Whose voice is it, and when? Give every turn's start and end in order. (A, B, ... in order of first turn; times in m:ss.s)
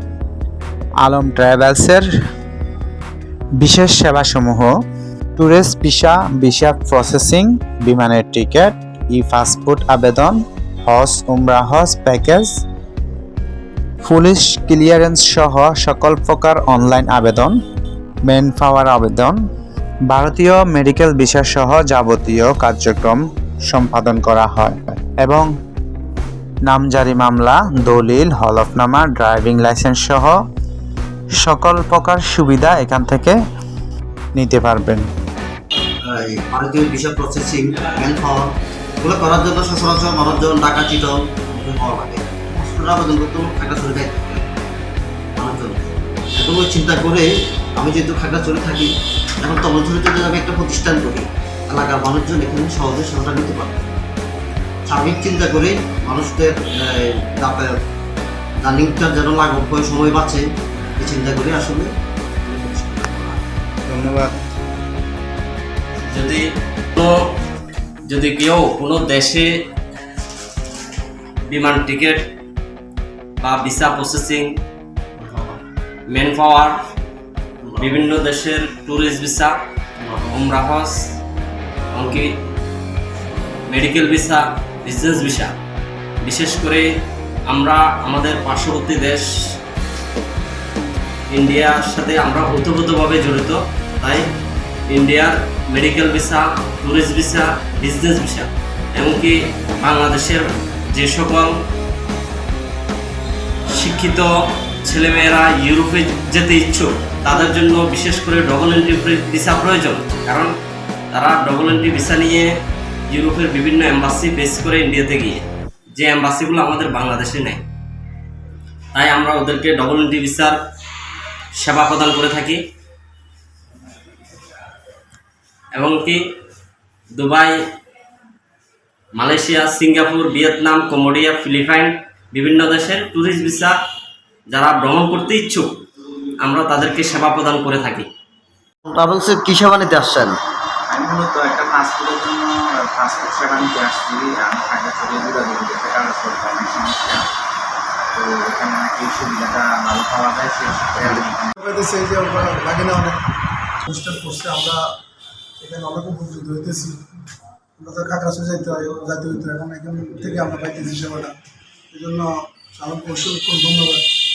0:01.0-0:02.1 A
0:03.6-0:04.8 A
0:05.4-0:12.6 A
0:14.0-0:17.6 A
0:18.3-0:19.4 A
0:20.1-0:25.5 A
0:26.7-0:30.4 A
0:31.4-0:33.4 A
0:34.4-0:35.1 A
0:36.0-0:38.5 B
0:39.0-0:44.5 B
0:45.4-0:53.9 B
0:54.9-0:57.8 B
0:58.6-1:00.5 B
1:01.0-1:01.9 B
1:02.4-1:03.4 B
1:03.9-1:04.4 A
1:06.1-1:07.4 C
1:08.1-1:09.5 C
1:11.5-1:12.3 C
1:13.4-1:14.5 C
1:15.2-1:15.5 B
1:16.1-1:16.8 C
1:17.8-1:19.6 C
1:20.0-1:20.3 B
1:20.3-1:20.9 C
1:21.9-1:22.4 C
1:23.7-1:25.6 C
1:26.2-1:26.9 C
1:27.5-1:29.2 C
1:31.3-1:34.3 C
1:34.9-1:41.6 C
1:43.7-1:44.3 C
1:44.8-1:50.5 C
1:51.1-1:52.5 C
1:53.1-1:57.6 C
1:58.9-2:00.6 C
2:01.6-2:02.6 C
2:05.8-2:06.2 C
2:07.2-2:07.6 C
2:09.2-2:13.8 C
2:14.5-2:15.7 C
2:16.4-2:18.1 C
2:18.9-2:20.4 B
2:20.9-2:27.3 D
2:28.1-2:31.5 D
2:31.6-2:33.2 E
2:33.8-2:34.9 E
2:35.6-2:37.0 E
2:37.8-2:41.3 E
2:41.9-2:44.1 E